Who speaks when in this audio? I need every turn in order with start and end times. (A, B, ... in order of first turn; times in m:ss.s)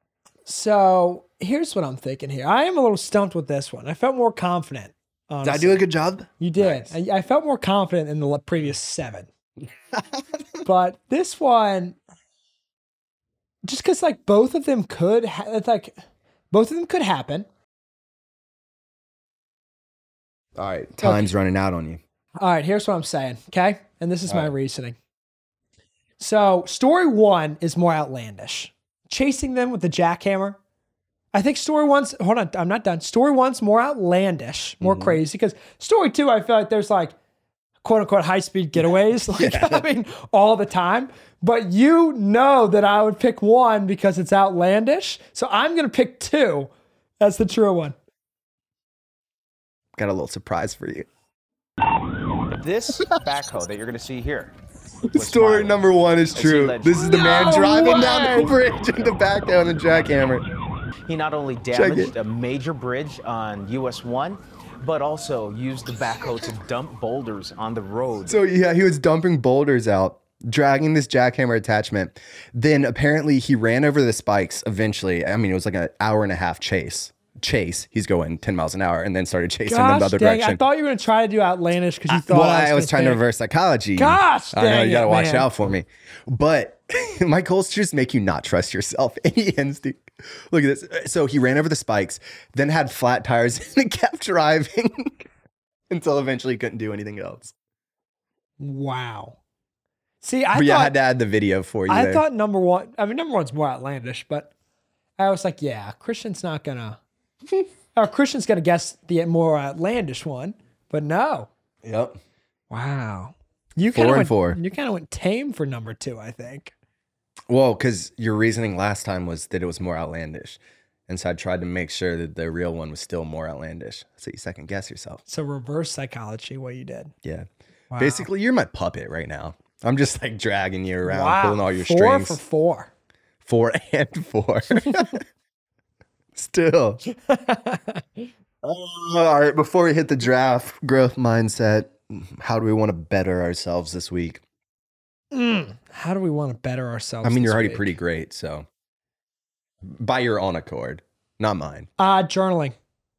0:00.4-0:05.8 A
0:05.4-0:06.9 B
0:06.4-0:09.3 A
0:10.6-0:12.0 A
0:13.6-0:16.0 A
0:16.5-0:17.5 A
0:20.6-0:22.0 B
0:21.0-0:21.3 A
0:22.4-0:25.0 A
0:26.2-0:30.6 A
0:31.3-0:37.1 A
0:34.8-0:35.2 B
0:37.8-0:48.0 A
0:39.3-0:39.8 B
0:50.0-0:51.1 B
0:52.6-0:54.5 C
0:55.1-1:00.4 B
0:55.1-0:55.8 C
0:56.3-0:58.5 C
0:57.0-0:58.3 A
1:01.1-1:08.4 C
1:01.7-1:02.1 B
1:08.3-1:20.6 B
1:19.6-1:23.2 A
1:22.1-1:35.3 B
1:24.0-1:25.5 A
1:35.9-1:37.5 B
1:38.6-1:39.4 A
1:40.2-1:40.9 A
1:40.5-1:42.2 B
1:41.9-1:44.5 A
1:45.2-1:47.0 A
1:47.9-1:51.5 A
1:51.8-1:52.2 B
1:52.7-1:56.7 A
1:53.9-1:54.6 B
1:57.5-2:05.2 B
2:05.3-2:07.1 A
2:07.2-2:12.4 B
2:07.9-2:08.2 A
2:11.0-2:12.9 A
2:13.4-2:15.2 B
2:16.3-2:17.0 B
2:17.1-2:18.3 A
2:18.6-2:24.4 B
2:25.3-2:27.9 A
2:27.2-2:28.7 B
2:29.8-2:31.9 B
2:32.0-2:32.8 A